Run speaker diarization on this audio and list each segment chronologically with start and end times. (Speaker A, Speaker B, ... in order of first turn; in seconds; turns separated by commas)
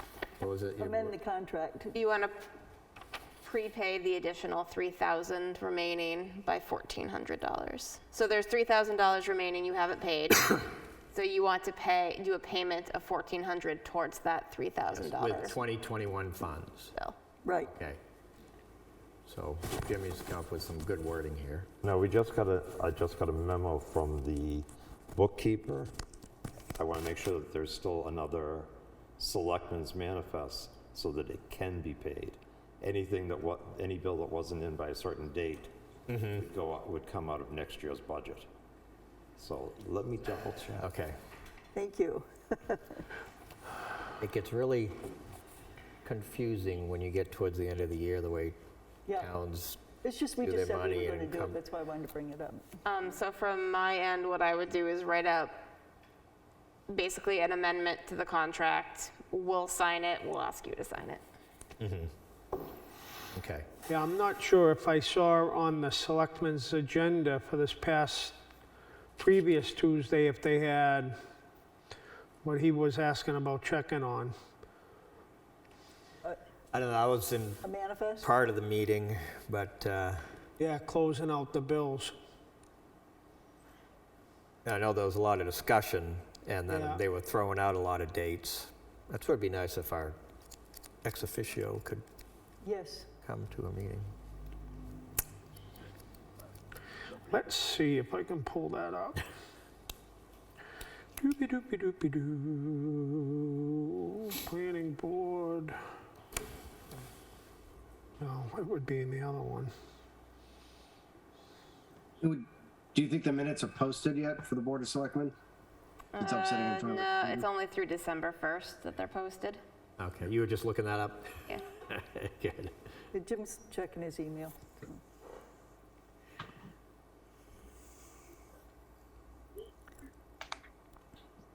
Speaker A: 0.4-1.1, Speaker B: 0.8-2.0, Speaker C: 2.0-2.4, Speaker C: 3.4-15.6, Speaker A: 14.9-16.9, Speaker B: 17.4-17.7, Speaker A: 17.6-18.0, Speaker A: 19.2-21.7, Speaker D: 21.8-25.9, Speaker D: 26.8-38.5, Speaker A: 36.1-36.4, Speaker D: 39.4-40.9, Speaker A: 40.8-41.2, Speaker B: 41.7-43.0, Speaker A: 44.2-45.0, Speaker A: 46.0-48.6, Speaker B: 49.1-49.3, Speaker A: 49.1-49.8, Speaker B: 50.0-52.7, Speaker A: 50.4-51.6, Speaker C: 52.8-55.6, Speaker C: 56.9-61.2, Speaker A: 61.8-62.1, Speaker A: 63.3-63.7, Speaker E: 63.9-68.3, Speaker E: 69.2-71.2, Speaker E: 72.4-74.3, Speaker A: 76.7-77.6, Speaker B: 77.6-78.3, Speaker A: 78.2-80.3, Speaker E: 80.6-82.1, Speaker A: 84.6-90.2, Speaker E: 86.7-87.0, Speaker A: 91.0-92.0, Speaker B: 92.6-93.1, Speaker A: 93.2-94.1, Speaker E: 97.3-99.2, Speaker E: 101.2-105.8, Speaker E: 108.2-109.7, Speaker F: 112.2-115.3, Speaker C: 116.1-119.6, Speaker F: 116.2-117.5, Speaker A: 120.0-122.7, Speaker B: 123.1-124.9